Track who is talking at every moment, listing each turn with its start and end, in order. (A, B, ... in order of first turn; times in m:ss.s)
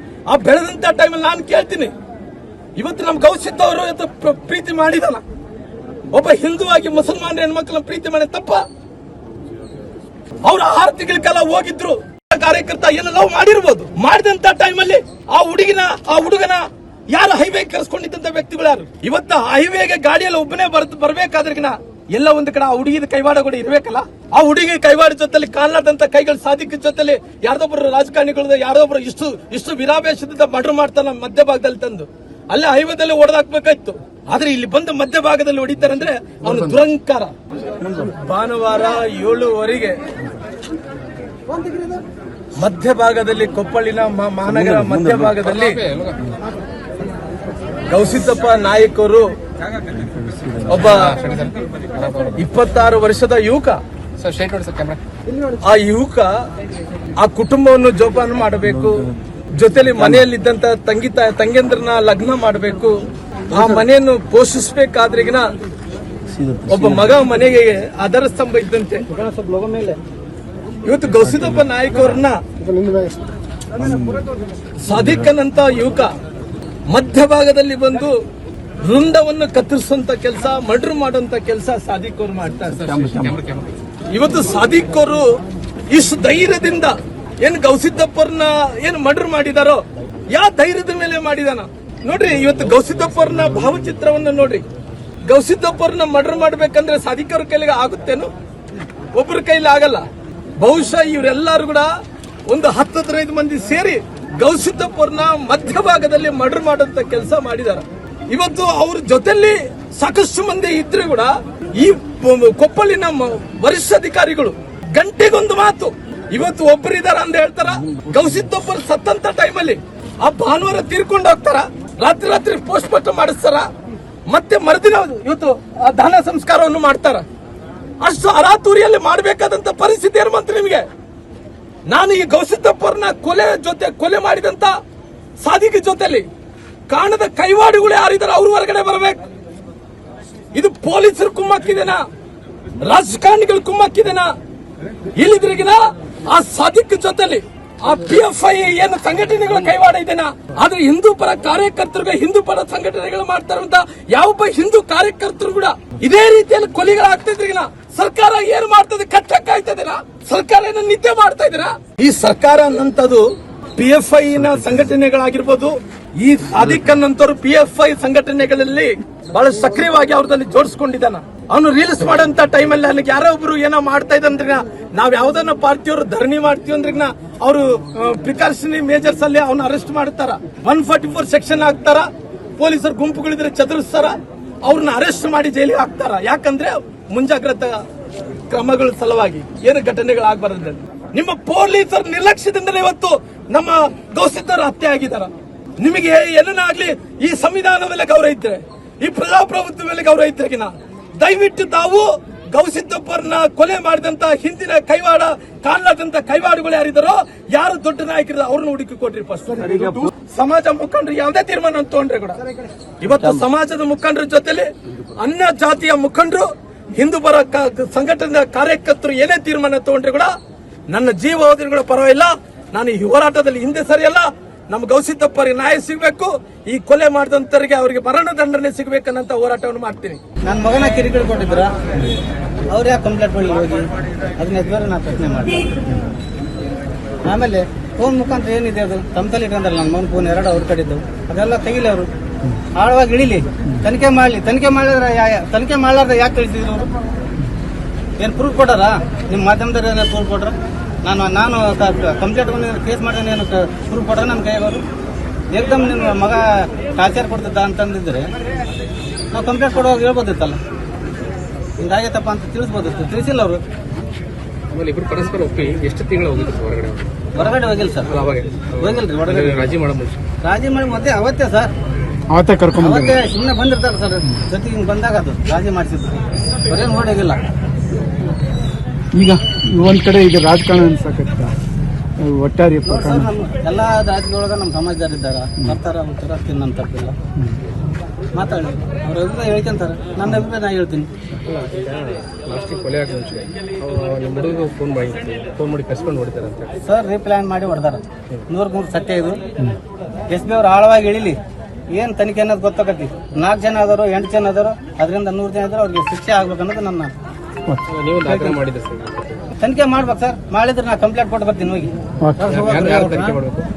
0:00.3-0:01.9 A
0:02.8-0:05.2 A
0:06.1-0:08.6 A
0:10.4-0:37.3 A
0:37.8-0:40.1 A
0:42.6-0:45.9 A
0:45.5-0:46.2 B
0:47.9-0:49.3 A
0:50.6-0:51.2 A
0:50.9-0:52.4 B
0:52.3-0:53.8 A
0:54.2-0:55.0 B
0:55.6-0:56.3 A
0:57.2-1:05.5 A
1:06.6-1:09.1 A
1:09.1-1:10.0 C
1:10.8-1:12.4 A
1:12.6-1:13.2 D
1:14.8-1:16.1 A
1:16.9-1:18.2 A
1:18.8-1:23.1 A
1:22.7-1:23.7 B
1:24.1-1:25.3 A
1:25.9-1:34.6 A
1:35.2-1:38.3 A
1:39.1-1:40.0 A
1:40.6-1:41.9 A
1:42.5-2:03.7 A
2:04.3-2:07.2 A
2:08.0-2:10.9 A
2:11.9-2:14.8 A
2:15.4-2:16.3 A
2:16.9-2:19.2 A
2:20.5-2:22.0 A
2:22.8-2:24.3 A
2:25.2-3:07.8 A
3:08.5-3:32.4 A
3:33.0-3:40.3 A
3:40.9-3:50.2 A
3:50.4-3:51.7 C
3:52.7-3:55.6 C
3:57.2-4:02.1 C
4:02.7-4:06.9 C
4:08.2-4:14.8 C
4:15.5-4:18.3 C
4:19.3-4:20.6 C
4:21.8-4:23.6 C
4:24.7-4:27.4 B
4:27.3-4:28.1 C
4:28.1-4:30.2 B
4:28.8-4:29.7 C
4:30.4-4:31.7 C
4:32.3-4:33.2 D
4:32.8-4:37.4 C
4:39.1-4:41.5 D
4:42.2-4:43.3 D
4:42.8-4:47.2 C
4:48.3-4:51.1 C
4:51.4-4:56.8 B
4:56.8-4:59.4 C
5:00.3-5:01.4 C
5:01.9-5:07.1 C
5:07.9-5:09.4 B
5:08.2-5:08.6 C
5:09.6-5:13.4 C
5:12.5-5:13.7 B